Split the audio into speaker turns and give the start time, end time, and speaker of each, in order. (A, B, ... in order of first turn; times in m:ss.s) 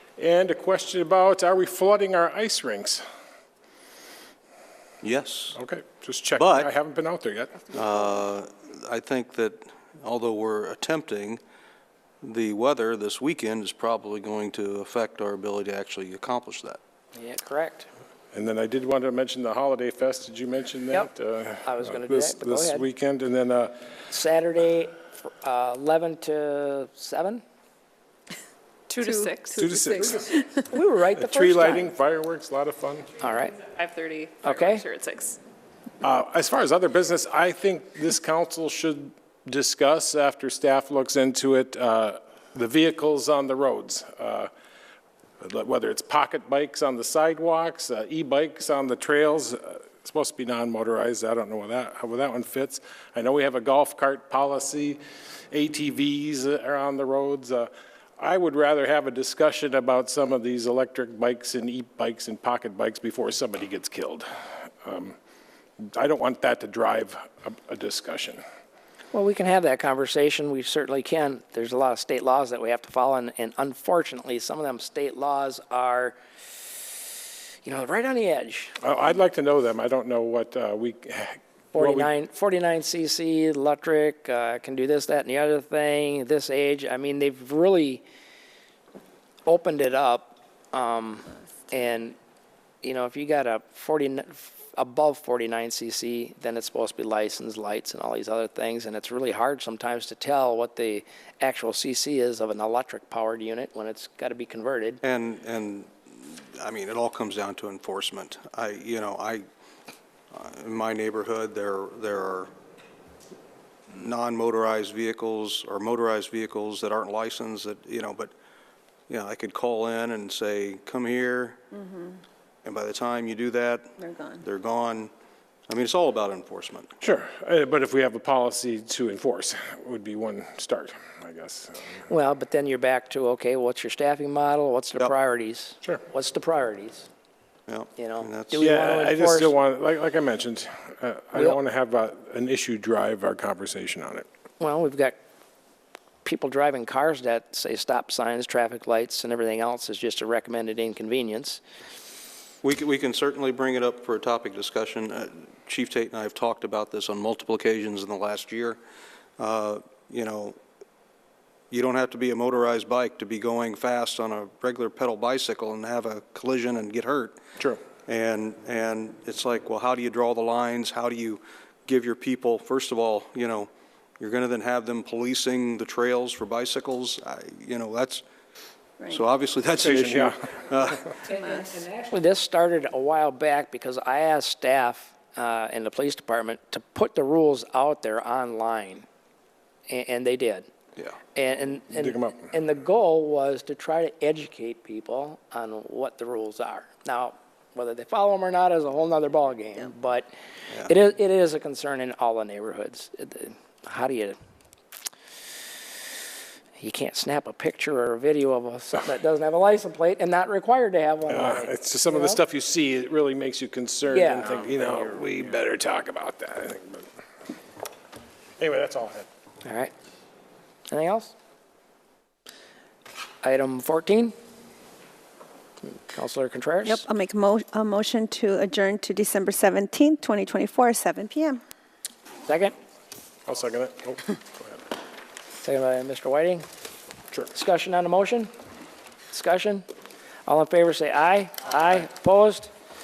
0:00.2-0:03.0 A
0:05.0-0:05.6 B
0:05.5-0:07.6 A
0:06.3-0:06.7 B
0:07.7-0:11.4 B
0:12.2-0:16.8 B
0:17.1-0:17.9 C
0:18.3-0:23.7 A
0:21.6-0:22.9 C
0:24.1-0:27.4 C
0:28.9-0:30.4 D
0:29.0-0:29.4 E
0:29.6-0:30.6 A
0:30.7-0:31.9 C
0:31.2-0:33.1 A
0:33.2-0:33.7 C
0:33.6-0:35.4 D
0:34.4-0:34.8 C
0:36.0-0:44.5 A
0:45.4-0:55.0 A
0:55.5-1:04.3 A
1:04.8-1:05.2 A
1:05.8-1:08.4 A
1:09.1-1:16.2 C
1:17.6-1:18.8 C
1:18.8-1:22.1 A
1:21.7-1:28.0 C
1:29.4-1:32.2 C
1:32.8-1:45.0 C
1:45.0-1:49.4 B
1:50.3-1:52.5 B
1:53.9-1:58.3 B
1:59.1-2:01.6 B
2:02.6-2:05.1 B
2:04.0-2:04.4 E
2:05.7-2:06.9 B
2:07.0-2:12.0 A
2:12.1-2:17.1 C
2:17.7-2:18.6 B
2:18.0-2:19.5 C
2:18.6-2:24.2 A
2:21.3-2:21.6 C
2:24.6-2:25.2 C
2:26.2-2:31.6 C
2:32.6-2:38.8 B
2:39.4-2:40.6 B
2:41.7-2:47.4 B
2:48.1-2:58.2 B
2:59.1-3:01.1 B
2:59.8-3:00.4 A
3:01.2-3:01.8 E
3:01.2-3:09.0 C
3:09.9-3:10.7 C
3:11.3-3:20.3 C
3:11.9-3:12.5 A
3:20.8-3:24.4 C
3:26.8-3:32.4 C
3:31.3-3:37.0 A
3:34.1-3:35.6 C
3:38.6-3:39.3 A
3:39.6-3:39.9 C
3:40.9-3:41.3 C
3:43.4-3:44.3 C
3:46.1-3:47.0 C
3:46.8-3:51.6 E
3:52.4-3:52.7 C
3:53.4-3:54.8 A
3:55.6-3:56.6 C
3:57.5-3:58.5 C
3:59.3-3:59.8 C
4:00.4-4:02.7 C